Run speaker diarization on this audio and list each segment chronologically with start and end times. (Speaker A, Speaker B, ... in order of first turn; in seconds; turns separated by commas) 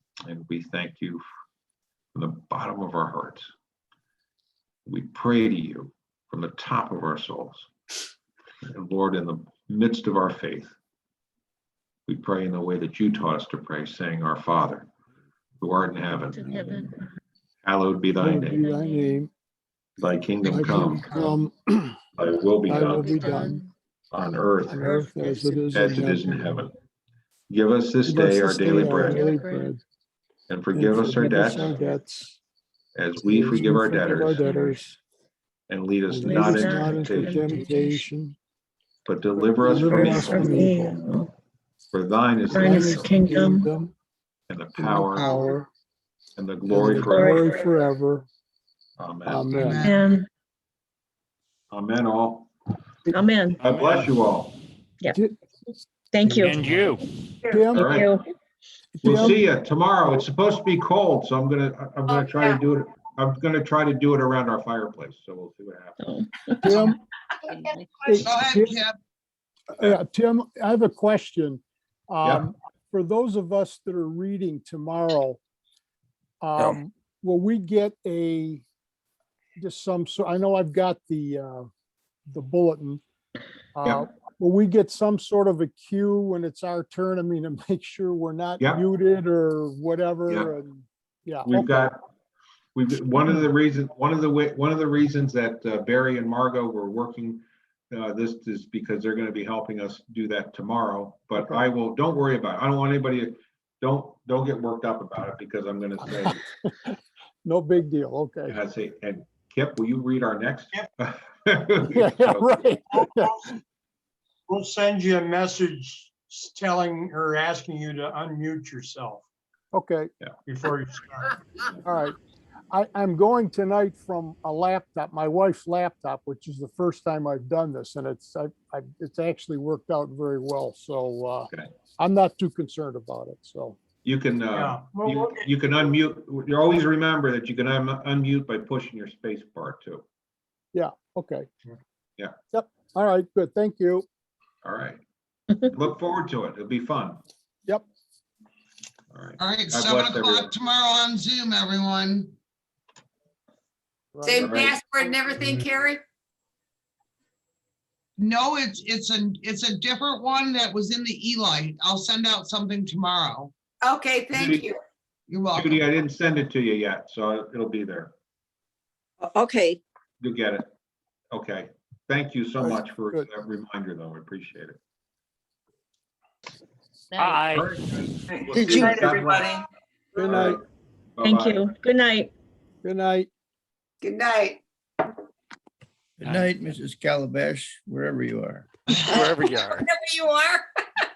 Speaker A: 0.2-1.2, Speaker A: 2.1-3.5, Speaker A: 4.8-7.7, Speaker A: 8.7-10.8, Speaker A: 12.1-14.9, Speaker A: 15.6-16.9, Speaker B: 16.3-17.0, Speaker A: 17.6-18.7, Speaker C: 18.2-19.3, Speaker B: 18.5-19.2, Speaker A: 20.0-21.1, Speaker C: 20.4-22.0, Speaker B: 20.6-21.4, Speaker A: 22.2-23.5, Speaker C: 22.7-23.6, Speaker B: 22.8-23.7, Speaker A: 24.1-24.9, Speaker C: 24.6-26.7, Speaker B: 24.8-25.6, Speaker A: 25.7-26.7, Speaker A: 27.5-29.3, Speaker C: 28.0-29.8, Speaker B: 28.7-29.7, Speaker A: 30.5-31.8, Speaker C: 30.7-32.4, Speaker B: 31.1-31.9, Speaker A: 33.0-34.4, Speaker C: 33.2-35.0, Speaker B: 33.6-34.8, Speaker A: 35.7-37.5, Speaker C: 36.1-38.4, Speaker B: 36.2-38.0, Speaker A: 39.0-40.7, Speaker C: 39.5-41.0, Speaker B: 39.9-41.3, Speaker A: 41.9-43.2, Speaker B: 42.5-43.7, Speaker C: 42.5-43.9, Speaker A: 44.5-45.5, Speaker C: 44.8-45.7, Speaker A: 46.4-47.6, Speaker C: 46.7-48.3, Speaker B: 47.0-47.5, Speaker A: 49.0-49.5, Speaker C: 49.2-49.8, Speaker D: 49.5-50.0, Speaker B: 49.8-50.2, Speaker A: 51.7-52.5, Speaker B: 53.1-53.6, Speaker A: 53.6-54.6, Speaker B: 56.1-56.9, Speaker E: 56.3-57.0, Speaker C: 57.5-57.9, Speaker A: 57.7-58.1, Speaker B: 57.7-58.2, Speaker C: 58.9-59.4, Speaker A: 59.0-66.0, Speaker F: 62.1-62.6, Speaker B: 66.0-66.8, Speaker C: 66.6-67.0, Speaker C: 68.0-68.8, Speaker D: 68.2-68.9, Speaker C: 69.7-75.4, Speaker C: 76.4-78.6, Speaker C: 79.6-81.7, Speaker C: 82.3-83.0, Speaker C: 83.8-91.9, Speaker A: 91.5-92.0, Speaker A: 92.7-106.4, Speaker C: 101.4-101.6, Speaker C: 106.8-108.5, Speaker A: 108.5-112.6, Speaker C: 111.9-113.6, Speaker G: 114.5-119.2, Speaker C: 119.7-120.1, Speaker G: 120.5-121.0, Speaker C: 121.8-122.2, Speaker C: 122.7-133.8, Speaker A: 134.0-140.0, Speaker G: 134.7-135.2, Speaker C: 140.7-141.5, Speaker C: 142.5-144.1, Speaker A: 144.6-145.0, Speaker A: 145.6-147.2, Speaker A: 149.1-150.5, Speaker D: 149.4-152.3, Speaker C: 154.1-154.5, Speaker F: 154.2-156.0, Speaker A: 154.3-154.8, Speaker D: 158.2-163.5, Speaker F: 163.8-164.8, Speaker A: 164.3-164.7, Speaker D: 165.3-165.8, Speaker A: 165.5-168.1, Speaker F: 169.2-169.8, Speaker A: 170.2-170.7, Speaker A: 171.3-174.8, Speaker C: 172.6-173.3, Speaker E: 177.2-177.7, Speaker A: 177.5-179.5, Speaker H: 178.5-178.9, Speaker F: 178.5-179.6, Speaker C: 180.2-180.6, Speaker A: 180.2-180.6, Speaker A: 181.2-181.7, Speaker B: 181.2-182.3, Speaker C: 182.8-183.3, Speaker F: 184.0-184.6, Speaker H: 186.2-189.1, Speaker F: 188.9-190.7, Speaker E: 189.1-189.9